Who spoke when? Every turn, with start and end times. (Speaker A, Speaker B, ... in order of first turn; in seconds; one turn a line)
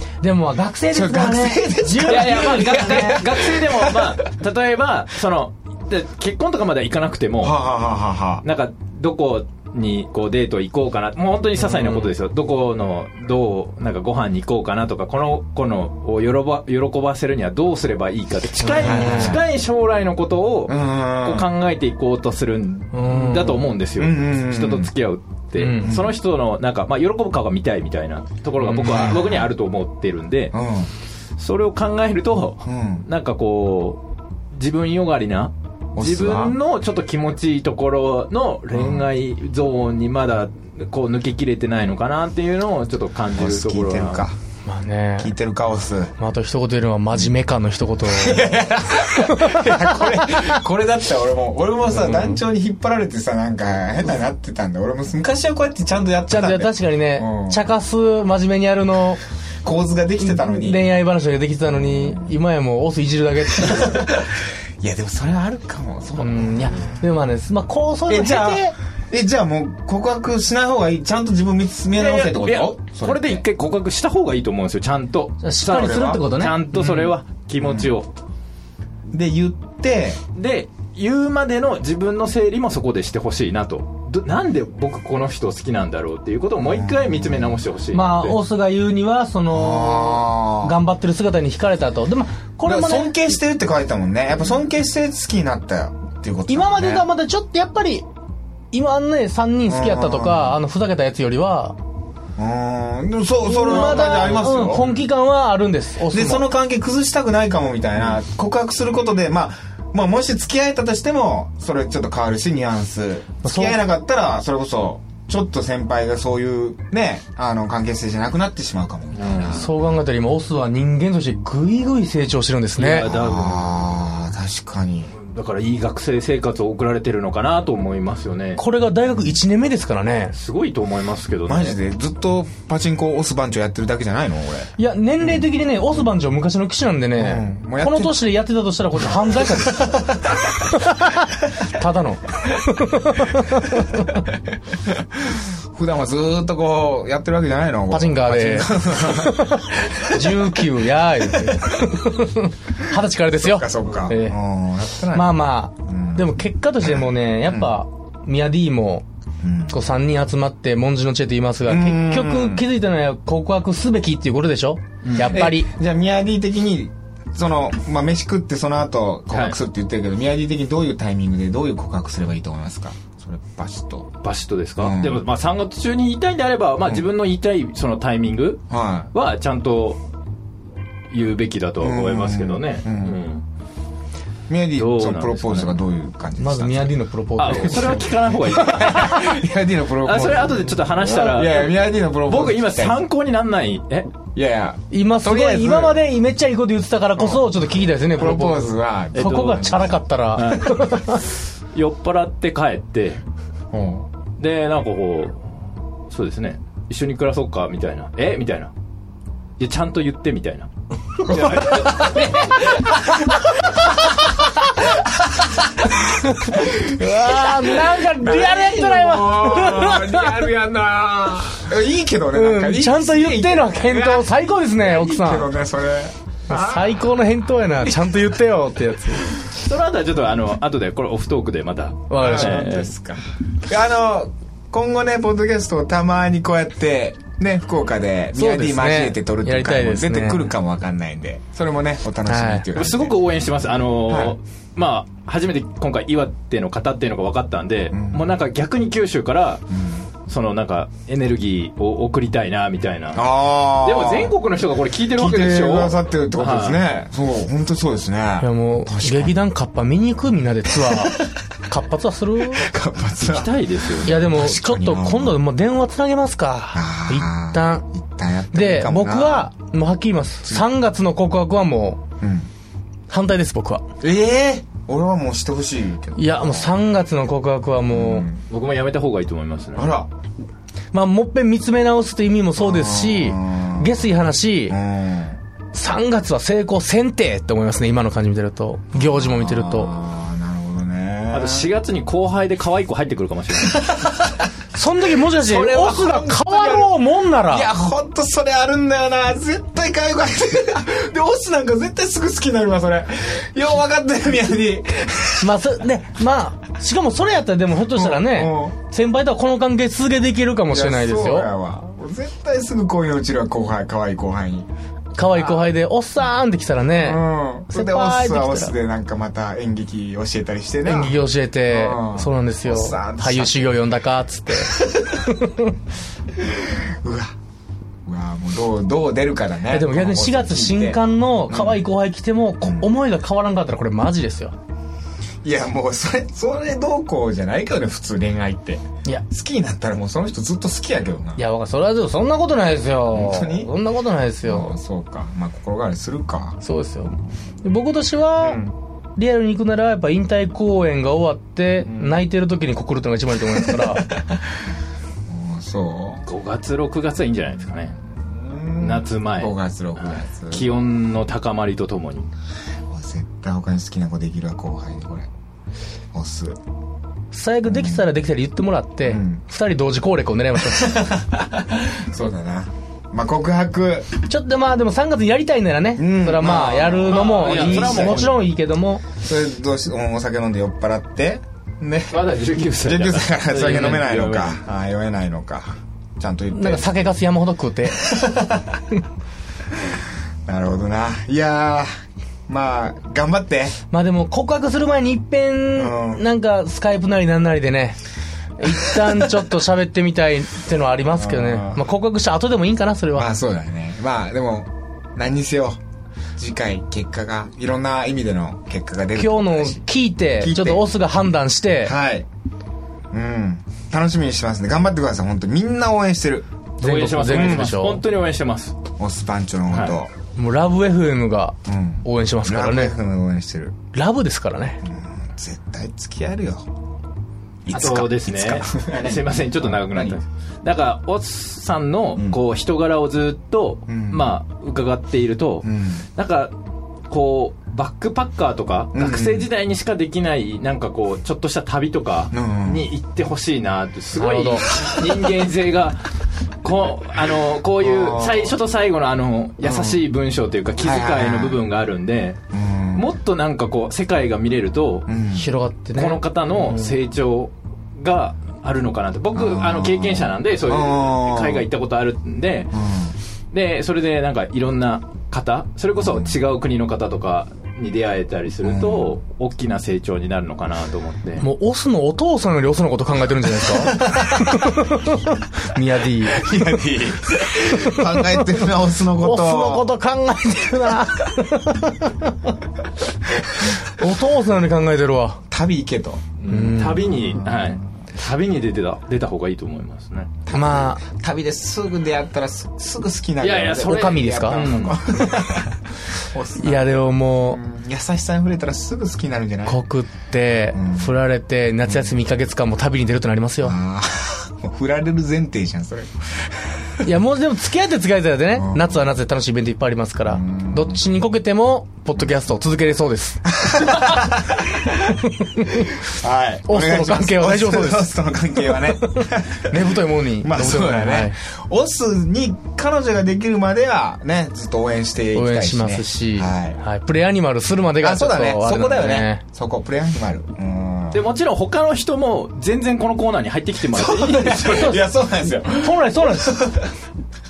Speaker A: 0.2-3.3
Speaker B: 0.9-4.3
Speaker C: 2.0-7.6
Speaker B: 7.4-8.4
Speaker C: 8.4-30.5
Speaker A: 11.6-12.1
Speaker B: 18.6-19.4
Speaker A: 18.7-19.4
Speaker B: 20.7-21.5
Speaker A: 22.9-23.6
Speaker B: 24.0-24.9
Speaker A: 25.6-26.0
Speaker B: 25.8-26.1
Speaker B: 28.6-29.5
Speaker B: 30.5-30.9
Speaker C: 31.4-34.0
Speaker B: 32.6-33.1
Speaker C: 34.5-44.3
Speaker B: 36.0-36.6
Speaker B: 38.7-39.1
Speaker B: 43.4-44.4
Speaker A: 44.6-45.3
Speaker B: 45.2-46.1
Speaker A: 46.2-48.5
Speaker B: 48.1-57.6
Speaker A: 49.2-50.5
Speaker A: 51.9-52.4
Speaker A: 56.3-59.2
Speaker B: 59.6-60.8
Speaker A: 60.2-64.1
Speaker B: 61.7-62.3
Speaker B: 63.6-67.0
Speaker A: 66.2-68.8
Speaker B: 68.1-73.5
Speaker C: 71.9-78.1
Speaker A: 75.4-77.1
Speaker B: 75.7-76.2
Speaker B: 77.6-77.9
Speaker B: 79.1-80.2
Speaker C: 80.3-88.4
Speaker B: 86.7-87.6
Speaker A: 87.9-93.4
Speaker B: 89.5-90.8
Speaker B: 92.6-97.1
Speaker A: 96.5-98.1
Speaker A: 98.7-101.8
Speaker B: 99.7-100.5
Speaker B: 102.4-104.9
Speaker A: 103.4-106.5
Speaker C: 103.7-105.0
Speaker B: 106.1-119.7
Speaker A: 113.4-113.8
Speaker C: 119.1-119.7
Speaker A: 119.5-123.1
Speaker C: 122.8-123.8
Speaker B: 122.9-125.1
Speaker C: 125.1-128.6
Speaker A: 128.6-130.4
Speaker C: 130.3-131.8
Speaker B: 131.5-135.4
Speaker A: 134.8-144.2
Speaker B: 137.2-138.2
Speaker B: 139.3-140.2
Speaker B: 144.9-150.5
Speaker A: 147.9-154.4
Speaker B: 153.3-156.3
Speaker A: 155.1-159.1
Speaker B: 156.8-157.8
Speaker B: 159.4-159.8
Speaker A: 159.7-165.7
Speaker B: 161.7-162.6
Speaker C: 165.0-165.4
Speaker B: 165.2-174.1
Speaker C: 169.3-169.6
Speaker C: 174.2-180.0
Speaker B: 174.8-175.2
Speaker B: 178.7-179.1
Speaker C: 181.1-183.4
Speaker B: 181.8-183.2
Speaker B: 184.5-187.0
Speaker C: 184.8-185.7
Speaker A: 186.4-188.1
Speaker C: 187.4-189.4
Speaker B: 187.5-193.0
Speaker C: 190.0-194.1
Speaker B: 194.3-196.0
Speaker A: 194.9-201.2
Speaker B: 197.2-200.0
Speaker C: 199.1-201.2
Speaker C: 201.7-203.2
Speaker B: 203.7-204.1
Speaker C: 204.4-208.7
Speaker C: 209.6-210.7
Speaker C: 211.2-212.9
Speaker B: 211.3-213.8
Speaker B: 214.8-227.0
Speaker A: 216.2-220.6
Speaker A: 222.3-225.5
Speaker A: 226.5-229.3
Speaker C: 229.5-232.9
Speaker A: 232.1-232.8
Speaker B: 232.2-243.2
Speaker A: 238.3-240.5
Speaker A: 242.3-242.7
Speaker C: 242.7-249.7
Speaker B: 244.1-244.3
Speaker B: 247.9-248.3
Speaker B: 249.7-250.1
Speaker C: 250.3-256.8
Speaker B: 253.1-254.3
Speaker B: 255.1-259.4
Speaker A: 258.4-262.7
Speaker B: 260.8-261.4
Speaker B: 262.5-265.4
Speaker C: 263.2-264.2
Speaker A: 264.1-267.9
Speaker B: 266.7-269.5
Speaker A: 268.5-272.0
Speaker B: 272.2-272.5
Speaker A: 273.1-273.8
Speaker B: 274.0-276.8
Speaker A: 276.2-278.3
Speaker B: 277.9-278.4
Speaker C: 278.5-279.9
Speaker B: 279.8-280.1
Speaker A: 280.9-284.8
Speaker B: 282.6-283.9
Speaker B: 284.7-285.4
Speaker A: 285.7-289.9
Speaker B: 288.9-291.7
Speaker C: 291.3-293.9
Speaker B: 293.6-294.5
Speaker A: 294.7-297.7
Speaker B: 295.3-305.6
Speaker A: 305.4-311.5
Speaker B: 307.9-308.8
Speaker B: 310.7-314.7
Speaker A: 315.2-318.8
Speaker B: 315.3-315.7
Speaker B: 317.0-323.7
Speaker A: 320.9-325.8
Speaker B: 324.6-325.2
Speaker B: 326.4-327.3
Speaker B: 328.1-331.8
Speaker A: 329.7-334.6
Speaker B: 332.6-332.9
Speaker B: 335.4-341.4
Speaker A: 341.4-344.8
Speaker B: 343.1-343.7
Speaker B: 344.4-346.6
Speaker A: 346.6-348.6
Speaker B: 348.4-348.7
Speaker A: 349.2-354.1
Speaker B: 351.8-352.2
Speaker B: 353.7-354.3
Speaker B: 355.3-356.3
Speaker C: 356.3-357.9
Speaker B: 358.0-360.7
Speaker C: 358.8-362.3
Speaker B: 362.9-365.3
Speaker B: 366.1-366.6
Speaker A: 367.3-371.1
Speaker B: 367.7-368.1
Speaker B: 369.1-369.4
Speaker B: 370.8-374.1
Speaker A: 374.3-379.0
Speaker B: 376.0-378.3
Speaker C: 377.1-378.5
Speaker B: 379.2-386.9
Speaker C: 382.1-384.7
Speaker A: 386.5-388.2
Speaker B: 388.0-388.8
Speaker B: 390.5-391.9
Speaker B: 392.5-393.8
Speaker A: 393.9-398.0
Speaker B: 395.8-396.2
Speaker A: 398.6-403.3
Speaker B: 398.7-399.3
Speaker B: 401.1-401.9
Speaker B: 403.1-405.8
Speaker B: 406.4-410.9
Speaker A: 409.2-411.9
Speaker B: 411.8-412.3
Speaker B: 413.1-416.5
Speaker A: 416.8-418.0
Speaker C: 416.8-418.8
Speaker B: 417.2-417.7
Speaker B: 419.0-420.1
Speaker C: 419.7-420.0
Speaker A: 420.4-422.9
Speaker B: 421.7-423.8
Speaker A: 423.9-424.8
Speaker B: 424.8-426.7
Speaker B: 427.7-430.2
Speaker C: 427.7-436.6
Speaker B: 433.9-434.3
Speaker B: 435.6-436.1
Speaker C: 437.1-452.4
Speaker B: 438.9-439.5
Speaker B: 442.3-442.9
Speaker A: 444.1-444.7
Speaker B: 447.8-448.6
Speaker B: 449.6-450.0
Speaker B: 450.8-451.6
Speaker B: 452.5-453.1
Speaker C: 452.9-455.1
Speaker B: 455.1-455.5
Speaker A: 455.4-457.0
Speaker C: 455.9-462.7
Speaker B: 459.3-461.7
Speaker B: 462.7-463.1
Speaker C: 463.5-471.5
Speaker B: 466.0-466.4
Speaker B: 468.6-469.2
Speaker A: 471.4-476.9
Speaker B: 473.7-474.9
Speaker B: 476.3-479.9
Speaker A: 477.5-482.5
Speaker A: 483.6-485.4
Speaker B: 485.5-486.8
Speaker C: 486.4-490.3
Speaker A: 486.5-487.1
Speaker B: 487.3-487.9
Speaker B: 490.5-499.8
Speaker A: 490.5-491.0
Speaker C: 493.4-494.9
Speaker A: 493.8-495.0
Speaker A: 496.6-497.6
Speaker A: 499.7-503.8
Speaker B: 500.7-501.1
Speaker B: 503.6-507.0
Speaker A: 507.1-514.4
Speaker B: 508.6-509.0
Speaker B: 510.3-511.0
Speaker B: 513.5-519.8
Speaker A: 515.1-515.9
Speaker A: 516.7-521.4
Speaker B: 520.4-526.8
Speaker A: 525.3-529.4
Speaker B: 528.0-531.2
Speaker C: 531.1-535.0
Speaker B: 533.9-536.8
Speaker A: 534.6-536.7